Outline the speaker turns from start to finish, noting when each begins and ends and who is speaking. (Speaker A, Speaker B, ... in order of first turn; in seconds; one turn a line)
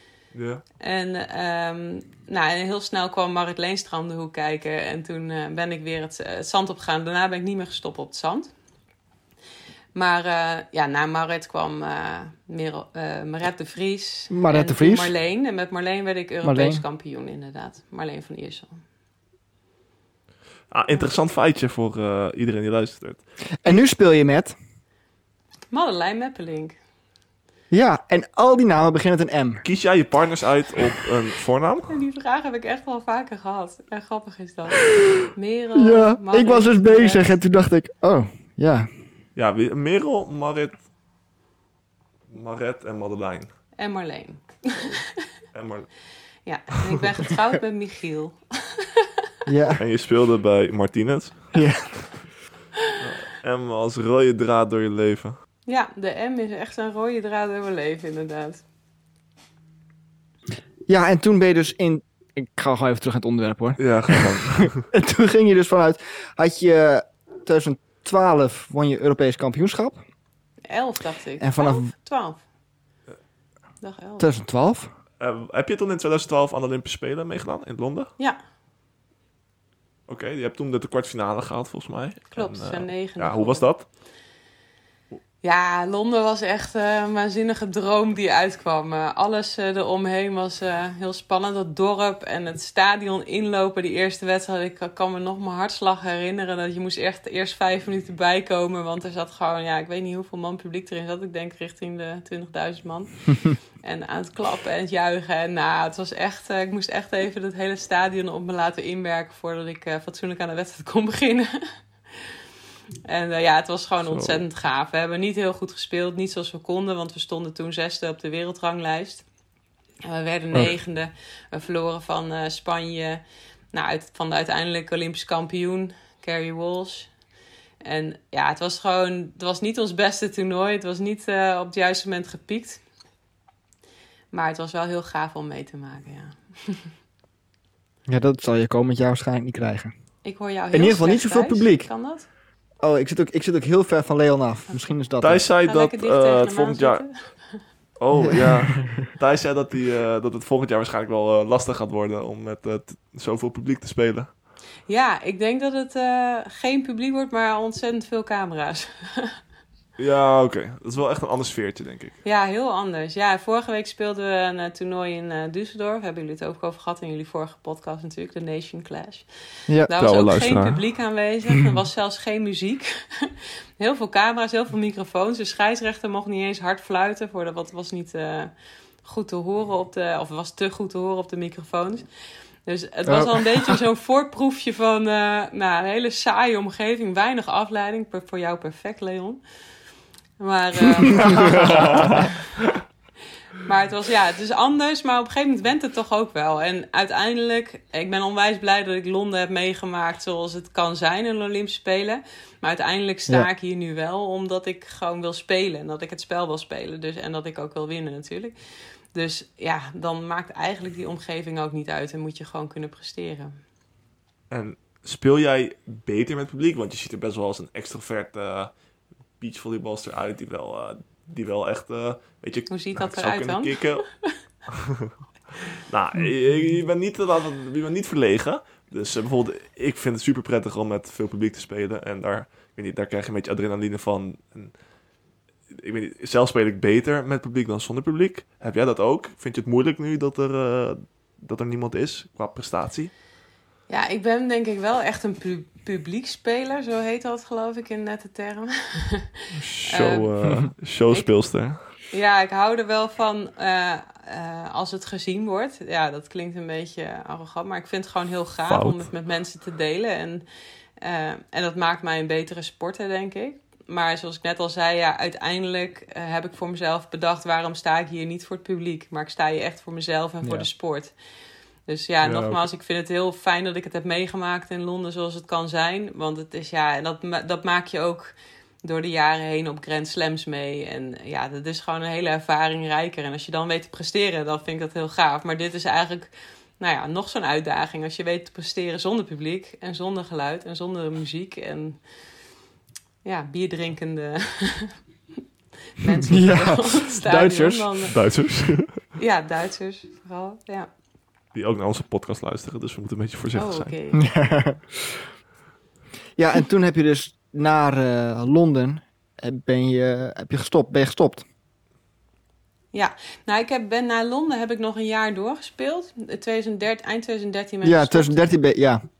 Speaker A: 0.3-0.6
Speaker B: 0.8-8.5
Speaker B: 9.9-18.8
Speaker C: 14.3-15.1
Speaker C: 16.4-16.8
Speaker A: 20.7-23.8
Speaker C: 23.6-24.5
Speaker B: 25.7-26.8
Speaker C: 27.7-29.6
Speaker A: 29.6-31.9
Speaker B: 31.9-37.4
Speaker C: 35.7-38.9
Speaker A: 39.4-40.8
Speaker A: 42.3-43.5
Speaker B: 43.8-44.9
Speaker A: 45.5-45.9
Speaker B: 46.4-48.9
Speaker C: 49.5-49.8
Speaker A: 49.8-51.5
Speaker C: 51.5-52.1
Speaker A: 53.0-55.4
Speaker B: 55.7-58.6
Speaker C: 60.9-70.0
Speaker A: 63.8-64.8
Speaker B: 70.7-72.4
Speaker C: 71.4-71.9
Speaker B: 73.8-74.3
Speaker C: 74.2-74.9
Speaker A: 75.2-78.1
Speaker A: 80.1-83.9
Speaker B: 82.3-83.7
Speaker B: 85.4-111.6
Speaker B: 113.1-119.2
Speaker A: 114.0-114.4
Speaker B: 120.0-123.2
Speaker B: 123.7-127.1
Speaker B: 127.8-132.8
Speaker B: 134.3-136.9
Speaker C: 138.1-139.9
Speaker B: 140.2-142.3
Speaker C: 140.7-141.9
Speaker C: 142.8-145.4
Speaker A: 145.2-147.1
Speaker B: 145.6-147.6
Speaker A: 148.0-154.3
Speaker C: 148.2-149.0
Speaker B: 154.9-159.3
Speaker A: 160.0-162.2
Speaker B: 162.2-178.5
Speaker A: 170.0-170.8
Speaker B: 179.0-182.1
Speaker B: 182.6-189.4
Speaker C: 183.1-183.8
Speaker B: 190.4-192.2
Speaker C: 191.1-192.1
Speaker A: 191.7-192.2
Speaker B: 193.6-208.5
Speaker B: 209.1-213.6
Speaker A: 214.5-218.7
Speaker A: 219.4-224.1
Speaker B: 222.7-224.3
Speaker A: 225.9-234.8
Speaker A: 235.7-243.1
Speaker B: 243.9-249.3
Speaker A: 249.5-251.8
Speaker B: 249.9-250.3
Speaker B: 251.9-260.4
Speaker A: 258.6-259.1
Speaker B: 261.0-271.1
Speaker C: 270.4-270.7
Speaker B: 271.9-292.0
Speaker A: 272.2-272.6
Speaker B: 293.2-295.0
Speaker B: 296.0-298.1
Speaker C: 296.3-297.9
Speaker A: 298.1-299.1
Speaker B: 299.2-300.9
Speaker A: 301.5-303.9
Speaker B: 303.6-304.2
Speaker C: 304.1-305.2
Speaker C: 306.4-311.4
Speaker B: 312.9-318.3
Speaker C: 317.8-319.0